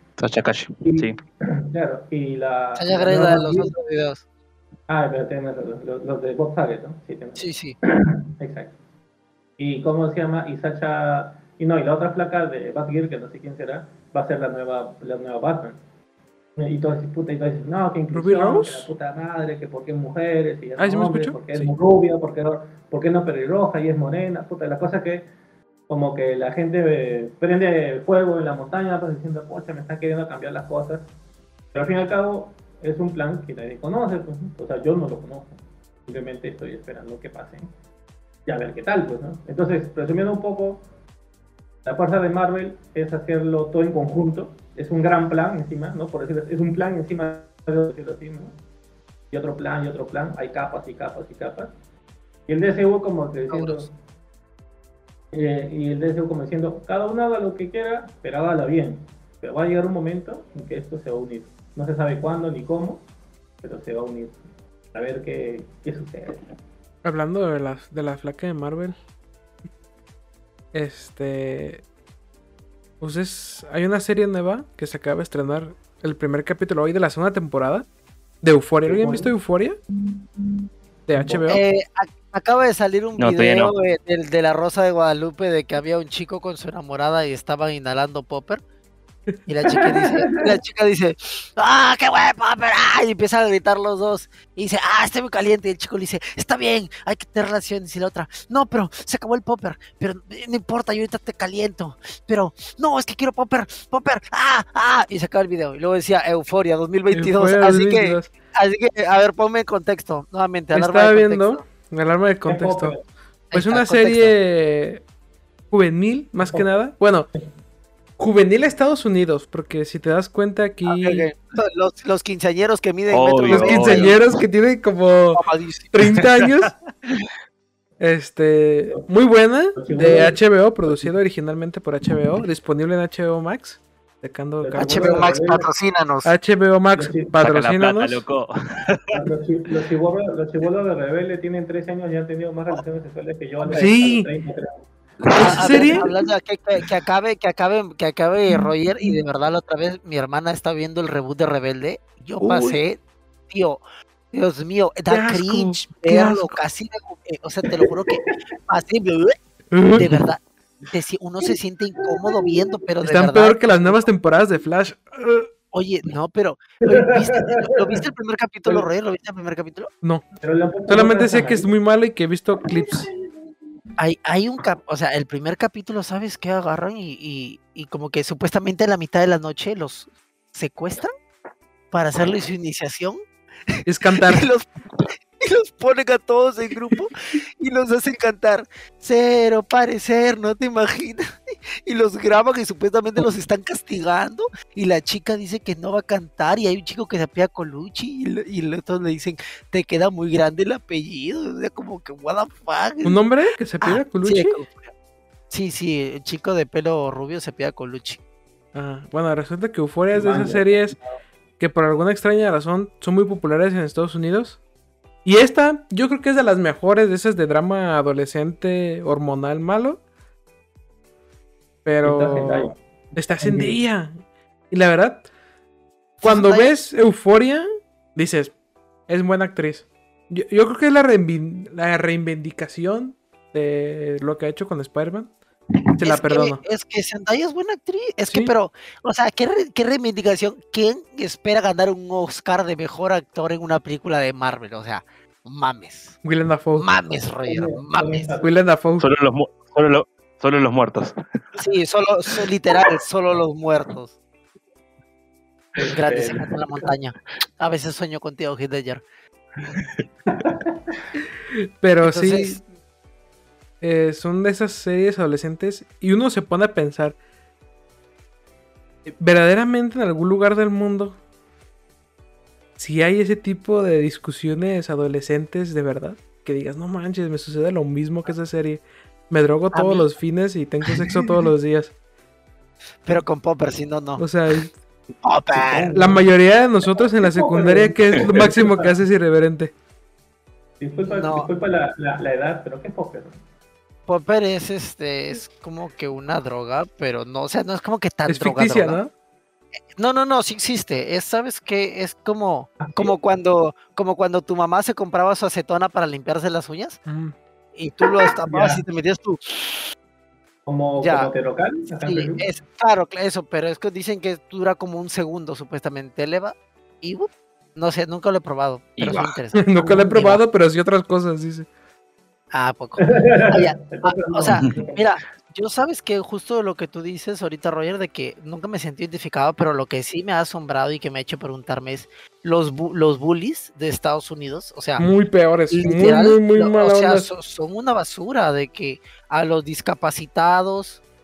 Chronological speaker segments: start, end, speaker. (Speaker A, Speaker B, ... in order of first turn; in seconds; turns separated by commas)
Speaker A: 0.2-1.1, Speaker B: 0.8-3.7, Speaker C: 2.8-4.2, Speaker B: 4.9-8.7, Speaker C: 7.4-7.8, Speaker B: 9.6-15.8, Speaker B: 16.6-25.3, Speaker D: 18.1-18.9, Speaker D: 20.8-21.7, Speaker B: 25.9-31.1, Speaker B: 31.7-37.7, Speaker B: 38.5-40.8, Speaker B: 41.8-48.5, Speaker B: 49.3-51.7, Speaker B: 52.5-53.9, Speaker C: 53.5-53.9, Speaker B: 55.3-63.0, Speaker B: 63.6-64.4, Speaker B: 64.9-66.4, Speaker D: 67.0-68.9, Speaker D: 70.7-71.8, Speaker D: 73.0-77.9, Speaker D: 78.4-79.8, Speaker B: 78.8-79.3, Speaker D: 81.1-81.6, Speaker B: 81.1-81.5, Speaker C: 81.5-88.6, Speaker A: 83.2-83.7, Speaker C: 89.5-111.6, Speaker B: 89.6-90.6, Speaker D: 107.1-108.3, Speaker D: 110.7-113.0, Speaker B: 112.5-113.0, Speaker C: 113.5-114.3, Speaker D: 113.5-115.0, Speaker D: 115.7-117.3, Speaker B: 116.4-116.7, Speaker D: 118.2-121.3, Speaker C: 120.8-124.2, Speaker A: 123.1-124.2, Speaker D: 123.5-126.8, Speaker C: 125.3-125.9, Speaker D: 128.0-135.3, Speaker B: 129.8-131.1, Speaker B: 134.6-135.7, Speaker C: 134.8-136.3, Speaker D: 136.2-138.2, Speaker B: 136.9-137.3, Speaker A: 137.4-139.1, Speaker B: 139.1-146.1, Speaker D: 143.7-144.3, Speaker D: 145.3-146.1, Speaker C: 145.3-159.4, Speaker D: 152.4-152.8, Speaker D: 155.1-156.5, Speaker B: 157.6-158.3, Speaker D: 159.7-160.2, Speaker C: 159.9-164.0, Speaker B: 162.1-162.7, Speaker D: 163.0-165.5, Speaker C: 165.7-169.9, Speaker B: 166.8-168.0, Speaker B: 170.4-171.7, Speaker D: 170.9-173.1, Speaker B: 172.6-173.1, Speaker C: 174.0-181.1, Speaker C: 181.9-203.2, Speaker D: 183.8-184.5, Speaker D: 203.0-204.6, Speaker C: 203.8-204.9, Speaker C: 205.5-208.2, Speaker D: 208.7-211.0, Speaker B: 210.1-211.0, Speaker D: 211.6-214.6, Speaker D: 215.2-220.0, Speaker D: 221.8-224.2, Speaker B: 222.0-223.8, Speaker D: 224.7-225.3, Speaker C: 226.2-226.7, Speaker D: 226.2-228.5, Speaker D: 229.1-235.3, Speaker D: 236.0-236.6, Speaker C: 236.0-246.2, Speaker D: 238.3-238.5, Speaker D: 246.2-246.9, Speaker C: 246.8-248.3, Speaker B: 247.4-248.5, Speaker D: 248.4-249.1, Speaker A: 249.0-251.1, Speaker C: 251.6-254.1, Speaker B: 255.8-256.9, Speaker C: 255.8-259.0, Speaker B: 260.3-260.9, Speaker D: 261.5-262.6, Speaker C: 262.0-262.6, Speaker D: 263.8-267.2, Speaker D: 269.1-271.2, Speaker D: 272.8-281.9, Speaker C: 279.7-280.1, Speaker C: 283.0-284.2, Speaker D: 284.2-284.7, Speaker C: 285.2-285.9, Speaker B: 285.5-286.3, Speaker D: 285.9-289.7, Speaker B: 286.9-288.9, Speaker B: 290.8-293.4, Speaker C: 291.1-291.5, Speaker C: 294.1-299.0, Speaker D: 298.3-299.1, Speaker C: 299.9-307.0, Speaker B: 302.8-303.1, Speaker D: 307.1-307.3, Speaker C: 307.7-309.8, Speaker B: 308.2-308.8, Speaker B: 310.6-312.4, Speaker C: 311.0-311.3, Speaker C: 312.0-320.4, Speaker A: 319.0-319.4, Speaker D: 319.5-321.7, Speaker C: 322.5-335.1, Speaker B: 323.0-325.1, Speaker D: 335.0-337.3, Speaker C: 335.7-341.0